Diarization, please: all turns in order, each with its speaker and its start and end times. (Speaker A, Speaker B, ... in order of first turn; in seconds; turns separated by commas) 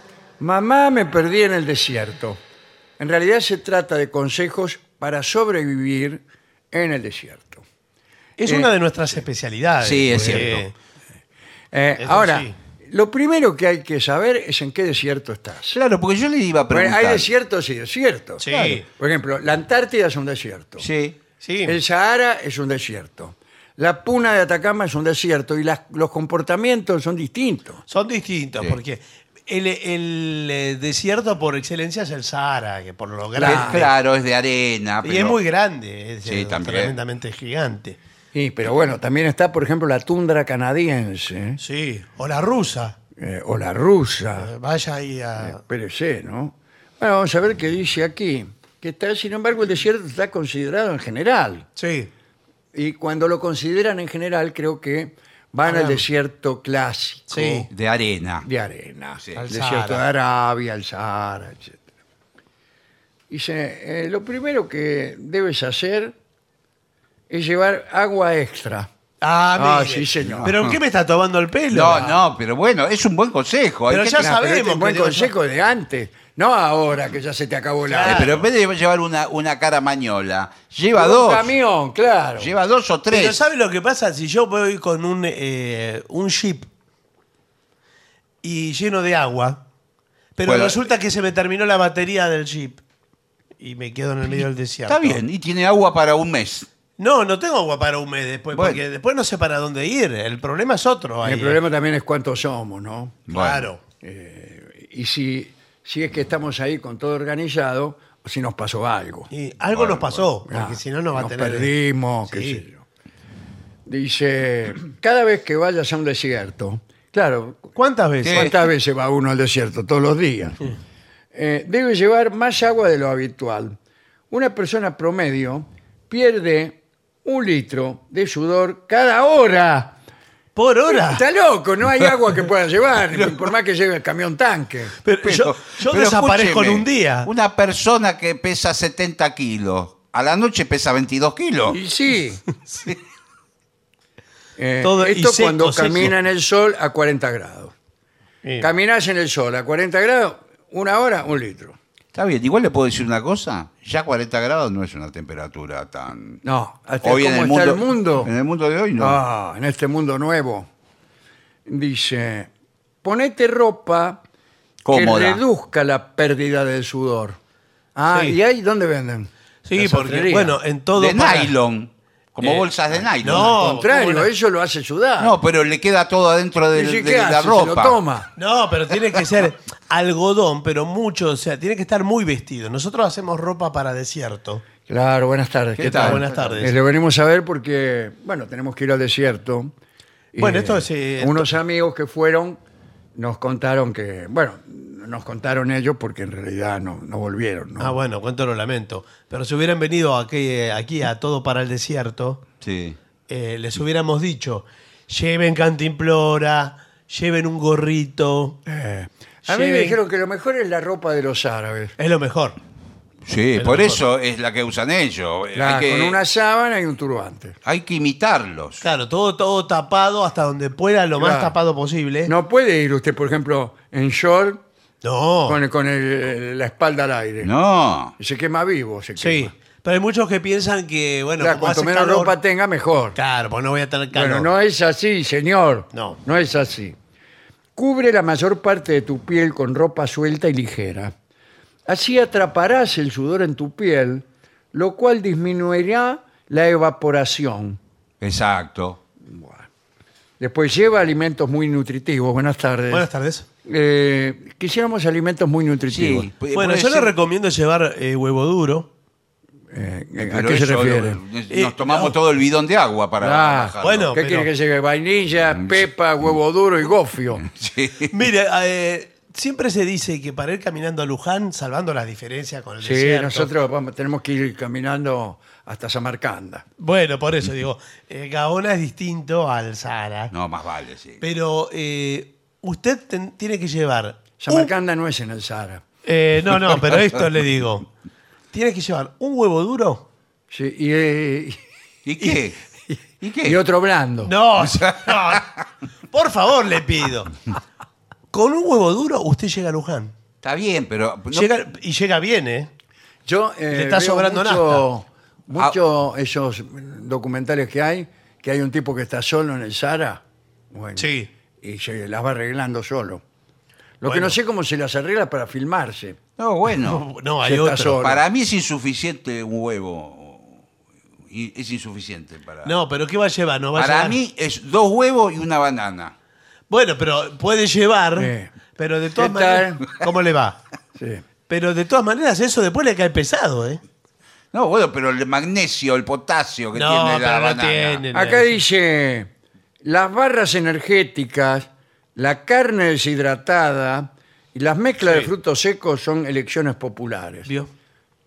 Speaker A: 0.4-2.4, Speaker A: 3.0-7.6, Speaker B: 8.4-10.7, Speaker A: 8.4-8.7, Speaker C: 9.8-10.7, Speaker A: 10.1-10.4, Speaker A: 11.7-15.8, Speaker B: 12.0-12.6, Speaker C: 15.7-17.3, Speaker A: 16.7-20.9, Speaker B: 18.4-18.9, Speaker C: 18.5-18.8, Speaker C: 20.8-21.2, Speaker B: 21.4-21.8, Speaker A: 21.6-27.8, Speaker B: 27.9-33.9, Speaker A: 33.3-33.9, Speaker C: 33.4-35.4, Speaker B: 35.0-38.0, Speaker C: 36.2-37.0, Speaker A: 38.3-41.6, Speaker B: 41.6-43.0, Speaker A: 43.2-44.5, Speaker B: 44.4-45.6, Speaker A: 45.4-51.7, Speaker B: 51.8-52.1, Speaker A: 52.7-57.7, Speaker B: 55.6-56.0, Speaker B: 57.3-57.7, Speaker C: 57.7-58.5, Speaker A: 58.4-61.8, Speaker B: 59.4-60.0, Speaker A: 63.3-66.1, Speaker A: 67.3-68.9, Speaker B: 69.2-72.0, Speaker A: 69.5-70.5, Speaker C: 70.2-70.8, Speaker C: 71.7-74.3, Speaker B: 73.9-75.3, Speaker A: 74.2-78.4, Speaker B: 77.9-78.4, Speaker C: 78.0-81.5, Speaker A: 80.9-82.5, Speaker C: 82.4-83.4, Speaker B: 83.1-86.7, Speaker B: 88.4-89.6, Speaker B: 90.4-92.8, Speaker C: 90.4-90.8, Speaker B: 93.6-95.2, Speaker C: 94.9-96.7, Speaker B: 97.0-101.6, Speaker C: 98.5-98.8, Speaker A: 101.2-103.2, Speaker C: 103.3-103.7, Speaker B: 103.3-103.8, Speaker A: 104.0-109.3, Speaker B: 109.3-111.7, Speaker C: 109.7-110.2, Speaker A: 110.5-112.8, Speaker B: 112.3-112.6, Speaker A: 113.9-117.7, Speaker B: 117.8-118.5, Speaker C: 118.2-118.6, Speaker A: 118.3-120.6, Speaker A: 121.3-123.8, Speaker A: 124.3-130.0, Speaker B: 130.5-131.2, Speaker A: 130.9-134.9, Speaker C: 133.2-133.4, Speaker B: 135.0-137.3, Speaker C: 135.2-141.8, Speaker A: 141.7-142.4, Speaker A: 144.6-147.7, Speaker B: 144.8-146.1, Speaker B: 148.4-148.7, Speaker A: 148.6-151.8, Speaker C: 152.1-156.4, Speaker A: 156.4-158.3, Speaker C: 157.0-159.2, Speaker A: 159.0-160.7, Speaker A: 161.7-162.5, Speaker A: 163.0-164.2, Speaker C: 164.8-165.4, Speaker A: 164.9-167.4, Speaker A: 167.9-170.6, Speaker B: 168.1-168.3, Speaker B: 169.6-171.5, Speaker C: 170.9-173.6, Speaker B: 172.4-172.7, Speaker A: 172.9-175.3, Speaker B: 173.2-174.3, Speaker C: 175.2-178.0, Speaker A: 176.7-178.3, Speaker B: 178.4-184.6, Speaker A: 184.9-189.7, Speaker C: 185.8-186.6, Speaker B: 185.9-186.8, Speaker A: 190.3-192.6, Speaker B: 190.4-191.5, Speaker A: 193.2-198.0, Speaker B: 197.8-202.4, Speaker C: 202.6-203.0, Speaker B: 203.3-208.6, Speaker A: 208.7-211.9, Speaker B: 209.4-210.0, Speaker B: 212.0-212.6, Speaker C: 213.2-216.2, Speaker B: 213.6-214.0, Speaker A: 215.5-217.6, Speaker C: 217.6-218.8, Speaker B: 218.8-222.3, Speaker A: 221.2-221.5, Speaker A: 222.3-224.6, Speaker B: 225.0-225.6, Speaker A: 225.5-227.5, Speaker C: 227.4-228.1, Speaker A: 228.2-229.5, Speaker B: 229.2-232.3, Speaker A: 231.4-233.2, Speaker B: 233.1-234.5, Speaker A: 234.1-236.9, Speaker B: 235.9-236.2, Speaker A: 237.8-241.1, Speaker A: 241.9-247.8, Speaker C: 248.2-249.0, Speaker A: 249.2-249.7, Speaker A: 250.4-253.1, Speaker B: 252.9-253.4, Speaker A: 253.6-256.3, Speaker C: 255.9-257.1, Speaker B: 256.5-258.9, Speaker A: 259.7-261.2, Speaker C: 260.2-264.1, Speaker B: 261.5-262.1, Speaker A: 263.2-267.4, Speaker B: 263.8-264.5, Speaker C: 265.5-265.8, Speaker C: 267.4-268.1, Speaker B: 268.1-273.5, Speaker A: 272.8-276.6, Speaker B: 276.8-280.3, Speaker C: 280.3-281.2, Speaker B: 281.2-284.7, Speaker A: 284.4-285.8, Speaker B: 286.0-287.9, Speaker B: 288.5-290.0, Speaker A: 290.5-291.6, Speaker C: 292.1-292.6, Speaker C: 293.2-293.6, Speaker A: 293.4-294.3, Speaker B: 294.2-295.5, Speaker C: 294.6-295.4, Speaker B: 296.1-297.3, Speaker B: 298.3-300.1, Speaker C: 300.4-301.5, Speaker B: 301.3-302.7, Speaker A: 303.2-311.1, Speaker B: 303.7-304.8, Speaker B: 311.0-311.3, Speaker A: 311.6-313.2, Speaker A: 314.0-316.2, Speaker B: 314.0-314.4, Speaker C: 316.4-317.0, Speaker B: 316.8-318.0, Speaker A: 317.4-318.2, Speaker C: 318.0-320.6, Speaker C: 321.3-322.8, Speaker B: 322.6-324.2, Speaker C: 323.7-326.1, Speaker B: 326.7-330.6, Speaker A: 328.1-328.5, Speaker A: 329.2-329.8, Speaker A: 331.0-331.2, Speaker B: 331.5-333.8, Speaker C: 334.5-338.0, Speaker B: 336.7-338.6, Speaker A: 338.1-339.3, Speaker A: 339.8-347.5